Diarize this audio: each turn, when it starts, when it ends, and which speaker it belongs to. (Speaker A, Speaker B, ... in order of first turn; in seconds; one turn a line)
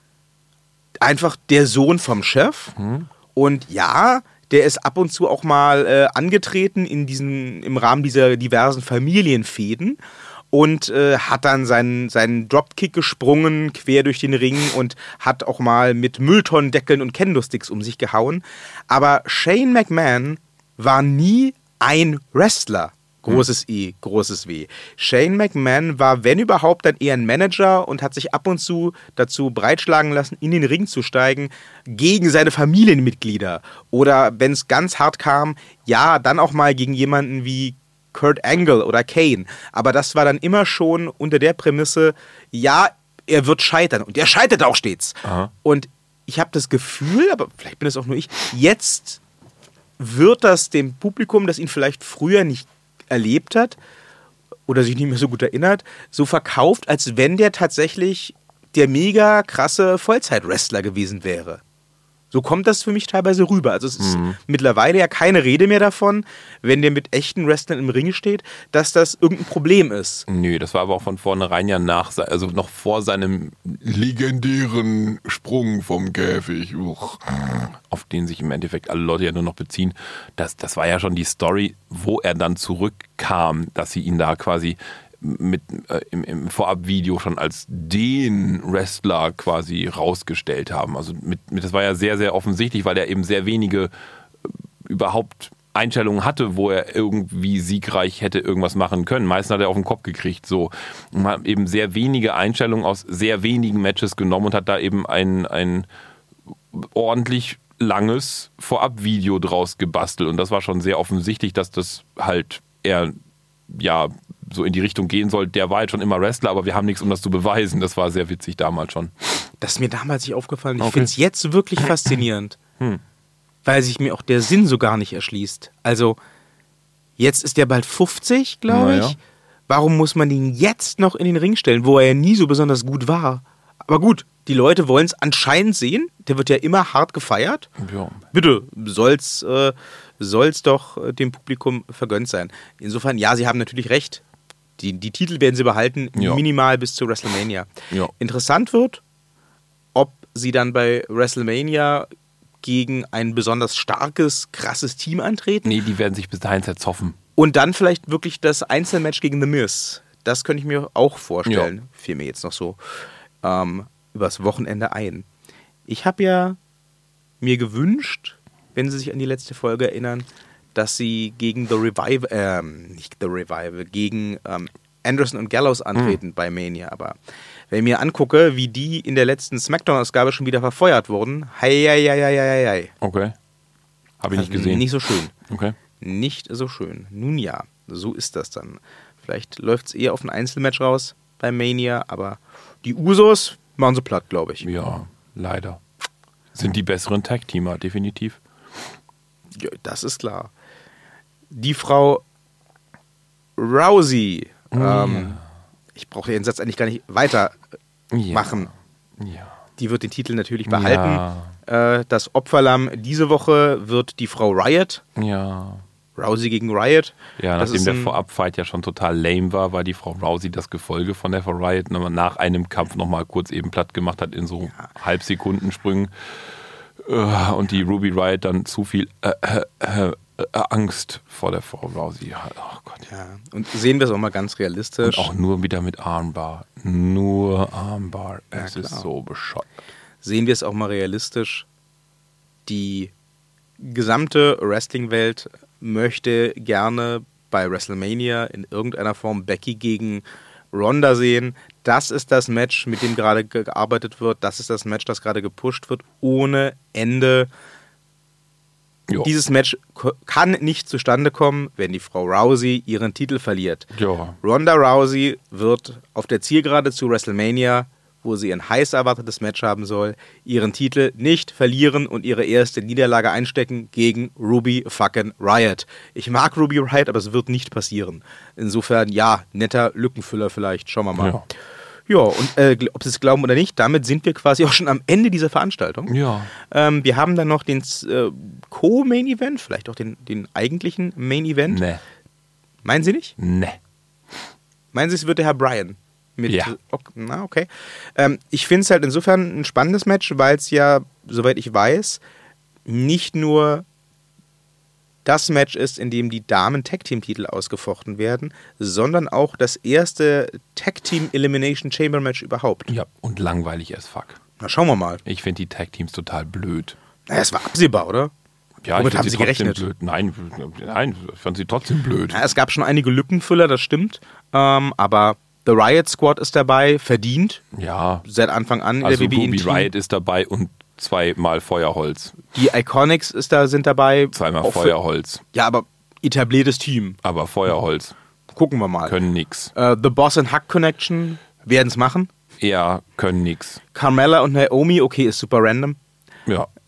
Speaker A: 1.0-2.8
Speaker B: 2.8-3.1
Speaker A: 3.4-10.0
Speaker A: 10.5-49.2
Speaker B: 45.2-45.5
Speaker A: 50.0-53.8
Speaker A: 54.7-61.6
Speaker A: 62.3-70.3
Speaker B: 64.0-64.4
Speaker B: 70.3-93.9
Speaker B: 94.4-105.9
Speaker B: 106.7-113.2
Speaker B: 113.7-119.1
Speaker A: 119.6-122.6
Speaker B: 120.8-121.1
Speaker A: 123.6-126.2
Speaker A: 127.2-129.2
Speaker B: 128.7-129.2
Speaker A: 129.7-137.7
Speaker B: 137.8-138.2
Speaker A: 138.3-144.2
Speaker A: 144.8-149.0
Speaker B: 146.2-146.4
Speaker A: 149.9-152.1
Speaker A: 152.6-155.8
Speaker B: 155.6-157.2
Speaker A: 157.4-162.8
Speaker B: 161.4-161.7
Speaker A: 163.4-165.3
Speaker A: 165.9-166.6
Speaker A: 167.4-177.2
Speaker A: 177.7-182.9
Speaker B: 183.0-183.3
Speaker B: 184.2-184.9
Speaker A: 184.3-185.3
Speaker B: 185.5-185.8
Speaker A: 186.0-194.7
Speaker B: 194.6-195.8
Speaker B: 196.5-198.4
Speaker A: 199.6-200.5
Speaker A: 201.5-202.2
Speaker A: 203.6-205.4
Speaker B: 204.7-205.4
Speaker A: 205.9-207.6
Speaker B: 208.1-209.6
Speaker A: 208.3-208.7
Speaker A: 209.8-215.0
Speaker B: 210.7-211.5
Speaker B: 215.2-215.8
Speaker A: 216.2-218.1
Speaker B: 217.4-226.1
Speaker B: 227.0-233.1
Speaker A: 233.1-235.3
Speaker B: 235.0-239.8
Speaker A: 238.6-239.1
Speaker A: 240.2-241.7
Speaker A: 242.7-243.1
Speaker A: 243.8-257.5
Speaker A: 259.2-263.9
Speaker B: 263.9-264.4
Speaker A: 264.4-281.4
Speaker B: 281.2-281.4
Speaker A: 282.1-291.8
Speaker B: 286.1-286.5
Speaker B: 291.7-292.0
Speaker A: 292.8-293.4
Speaker B: 293.4-293.8
Speaker A: 294.9-302.2
Speaker B: 296.5-296.7
Speaker A: 302.9-303.8
Speaker A: 305.2-312.9
Speaker B: 312.9-314.4
Speaker A: 314.6-315.2
Speaker B: 315.2-317.0
Speaker A: 317.3-318.3
Speaker B: 318.8-322.4
Speaker A: 318.9-319.9
Speaker A: 322.3-327.6
Speaker B: 327.7-328.2
Speaker A: 328.2-329.9
Speaker B: 329.0-332.4
Speaker A: 332.5-334.9
Speaker B: 334.3-335.4
Speaker A: 335.5-337.2
Speaker B: 337.2-338.1
Speaker A: 338.5-339.2
Speaker B: 339.1-339.7
Speaker A: 339.7-342.3
Speaker B: 342.6-343.8
Speaker A: 343.9-346.0